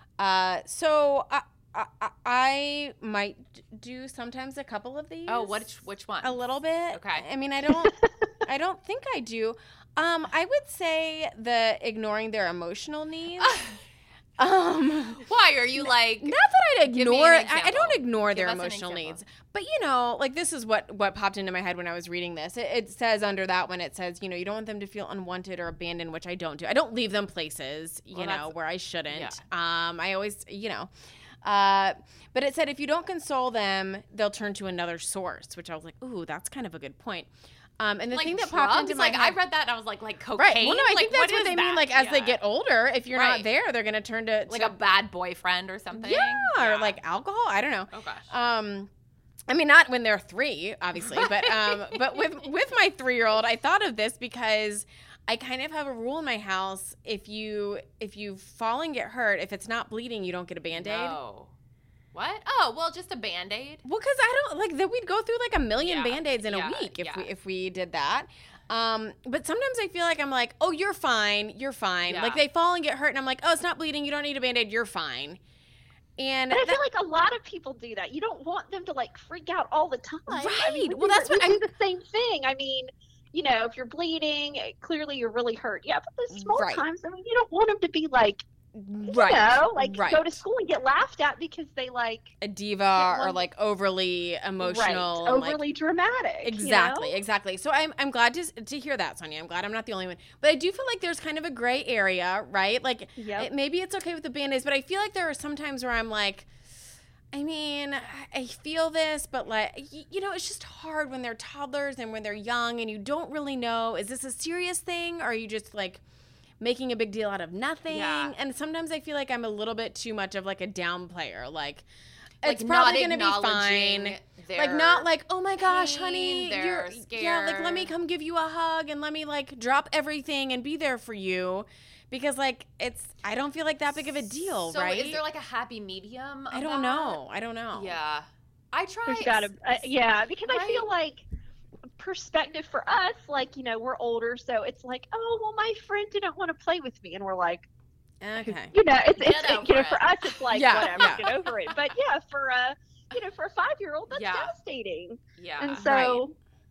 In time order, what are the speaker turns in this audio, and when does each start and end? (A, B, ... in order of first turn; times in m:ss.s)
0:00.2-0:05.6 A
0:05.3-0:07.2 B
0:06.2-0:13.6 A
0:13.4-0:13.8 B
0:14.4-0:15.2 A
0:15.2-0:19.2 B
0:15.8-0:39.4 A
0:28.1-0:28.5 B
0:29.1-0:29.4 B
0:38.1-0:42.4 B
0:40.4-0:44.8 A
0:43.1-0:43.4 B
0:44.5-0:47.0 B
0:45.9-0:48.9 A
0:47.9-0:48.2 B
0:49.5-1:01.2 A
0:51.0-0:52.3 B
1:00.7-1:01.5 B
1:02.1-1:03.8 B
1:03.8-1:15.4 A
1:05.8-1:07.3 B
1:12.0-1:12.4 B
1:16.2-1:16.8 A
1:16.5-1:28.4 C
1:20.3-1:21.7 A
1:26.3-1:26.8 A
1:28.7-1:30.4 A
1:29.0-1:32.3 C
1:32.4-1:35.6 A
1:32.9-1:33.4 C
1:34.6-1:37.2 C
1:36.4-1:46.5 A
1:43.2-1:43.5 C
1:47.3-1:56.0 A
1:56.6-2:01.8 A
1:57.9-1:58.3 B
2:02.4-2:15.2 A
2:02.4-2:07.9 B
2:14.6-2:17.2 B
2:16.5-2:18.0 A
2:17.7-2:19.9 B
2:19.0-2:21.2 C
2:20.5-2:20.8 A
2:22.0-2:27.7 C
2:28.2-2:28.7 A
2:28.4-2:36.3 C
2:29.2-2:31.7 B
2:30.5-2:31.2 A
2:34.1-2:34.5 B
2:35.4-2:35.9 B
2:35.8-2:36.2 A